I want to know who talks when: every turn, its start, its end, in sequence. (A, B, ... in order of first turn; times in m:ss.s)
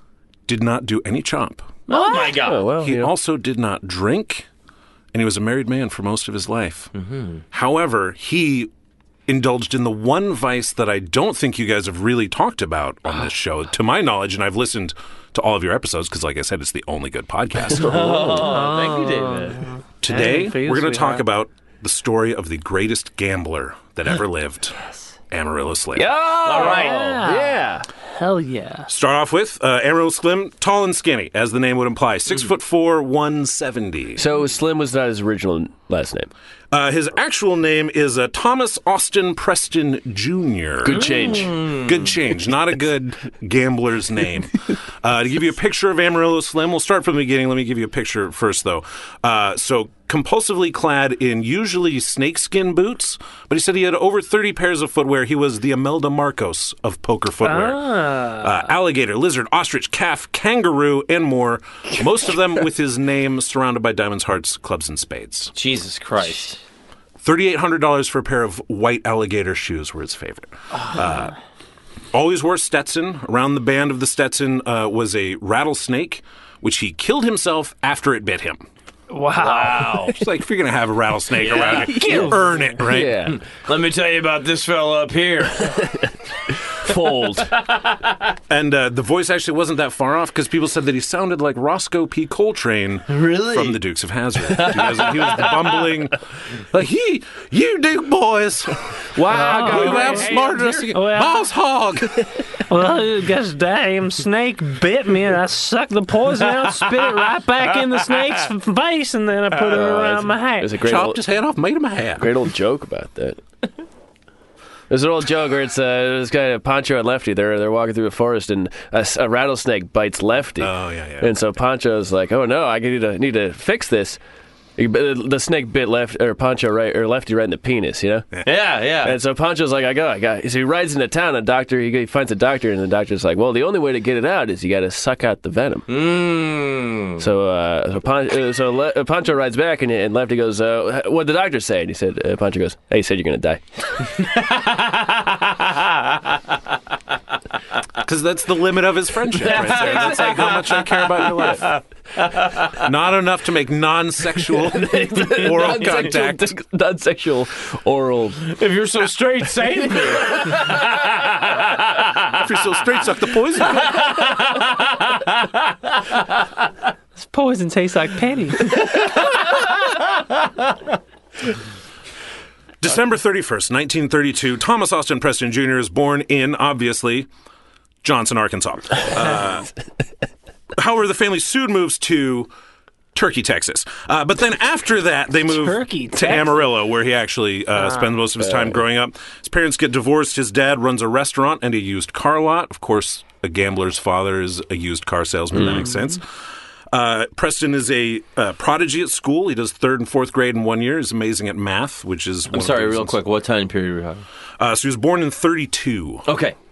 0:00.5-0:01.7 A
0:01.9-0:02.6 B
0:01.9-0:02.3 C
0:02.2-0:03.1 D
0:02.8-0:04.5 A
0:05.1-0:06.9 A
0:07.0-0:07.4 B
0:07.5-0:08.7 A
0:09.3-0:18.4 A
0:17.7-0:18.6 D
0:17.7-0:19.7 B
0:18.4-0:21.2 C
0:20.0-0:24.8 A
0:25.3-0:26.1 A
0:26.0-0:27.9 D
0:26.4-0:27.1 B
0:26.5-0:28.9 C
0:28.9-0:34.2 A
0:34.2-0:36.3 D
0:36.7-1:05.5 A
0:40.8-0:41.6 D
0:40.9-0:42.1 B
0:57.4-0:58.7 C
1:05.5-1:06.6 B
1:07.2-1:11.3 A
1:12.1-1:18.6 A
1:19.1-1:20.0 C
1:19.4-1:20.2 B
1:20.0-1:23.4 A
1:21.4-1:22.3 B
1:21.7-1:22.6 C
1:21.8-1:23.4 D
1:23.3-1:25.8 B
1:25.6-1:27.5 D
1:27.5-1:28.3 B
1:28.5-1:36.2 A
1:33.1-1:33.8 B
1:34.5-1:35.9 B
1:36.7-1:42.3 A
1:39.2-1:40.5 D
1:39.3-1:41.5 C
1:39.6-1:40.8 B
1:42.7-1:50.8 C
1:49.7-1:51.2 D
1:50.8-1:52.3 A
1:52.2-1:53.4 D
1:54.9-2:04.2 D
2:00.6-2:01.3 A
2:04.8-2:08.3 D
2:08.4-2:09.2 B
2:09.0-2:15.9 D
2:15.9-2:17.2 B
2:17.2-2:23.6 D
2:24.1-2:26.4 B
2:28.0-2:31.8 A
2:29.4-2:32.8 B
2:29.4-2:30.6 D
2:32.8-2:36.5 A
2:34.6-2:38.4 D
2:35.6-2:36.0 B
2:38.4-2:42.4 B
2:42.4-2:44.2 A
2:43.6-2:46.2 B
2:47.2-2:48.8 C
2:49.0-2:50.0 B
2:52.8-2:57.3 A
2:58.0-2:59.7 A
3:00.8-3:02.5 A
3:03.1-3:16.2 A
3:05.5-3:06.6 C
3:07.8-3:08.2 C
3:08.4-3:08.8 D
3:15.5-3:15.9 D
3:16.9-3:23.2 A
3:22.5-3:24.2 B
3:24.6-3:26.3 A
3:26.3-3:26.6 B